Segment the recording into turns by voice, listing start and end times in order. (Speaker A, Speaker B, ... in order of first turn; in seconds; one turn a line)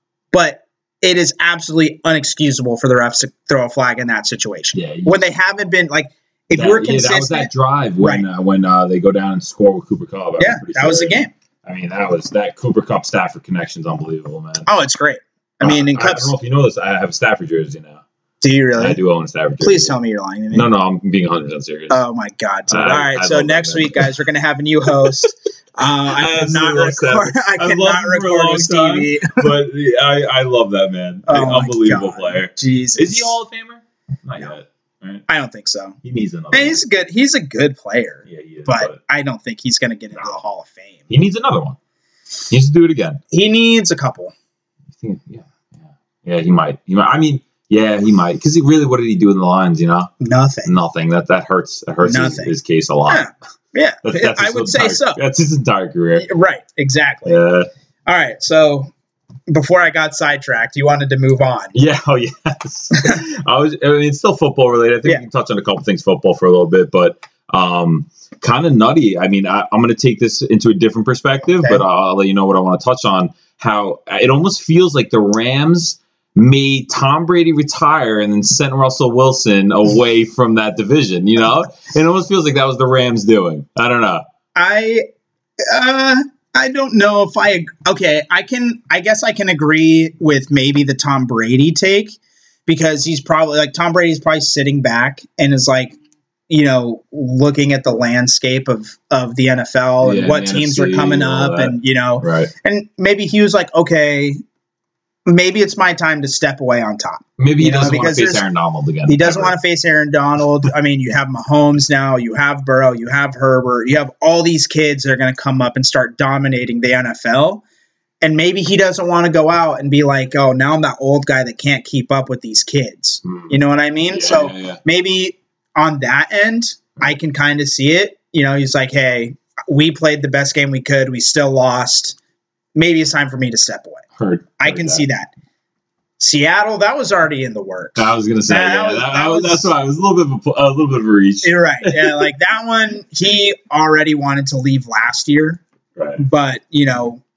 Speaker A: 0.3-8.3
Speaker B: 4.7-5.2
Speaker B: 6.5-14.7
Speaker A: 10.4-11.3
Speaker A: 14.7-16.3
Speaker B: 15.6-18.0
Speaker A: 18.4-19.0
Speaker B: 18.8-19.9
Speaker A: 19.6-20.7
Speaker B: 20.5-22.0
Speaker A: 21.9-29.5
Speaker B: 22.7-24.2
Speaker B: 26.1-35.2
Speaker A: 31.3-33.4
Speaker A: 35.3-36.0
Speaker B: 36.0-36.8
Speaker A: 36.5-41.0
Speaker B: 38.3-39.0
Speaker B: 41.1-41.8
Speaker B: 42.5-43.2
Speaker A: 43.3-44.3
Speaker B: 45.0-50.1
Speaker A: 50.2-50.7
Speaker B: 50.6-53.3
Speaker A: 52.0-52.5
Speaker A: 53.1-55.2
Speaker B: 54.0-56.3
Speaker A: 56.2-57.4
Speaker B: 57.3-57.7
Speaker A: 58.1-58.9
Speaker A: 59.5-61.8
Speaker B: 61.7-84.2
Speaker A: 84.5-85.1
Speaker A: 85.7-96.0
Speaker A: 96.5-104.4
Speaker B: 100.0-102.5
Speaker A: 105.3-108.5
Speaker B: 107.4-109.6
Speaker A: 109.1-117.6
Speaker A: 118.2-132.2
Speaker B: 123.2-123.6
Speaker B: 124.1-124.8
Speaker A: 132.8-134.0
Speaker B: 134.2-135.1
Speaker A: 134.6-135.3
Speaker A: 136.2-139.7
Speaker B: 138.0-142.2
Speaker A: 141.4-145.6
Speaker A: 146.2-147.2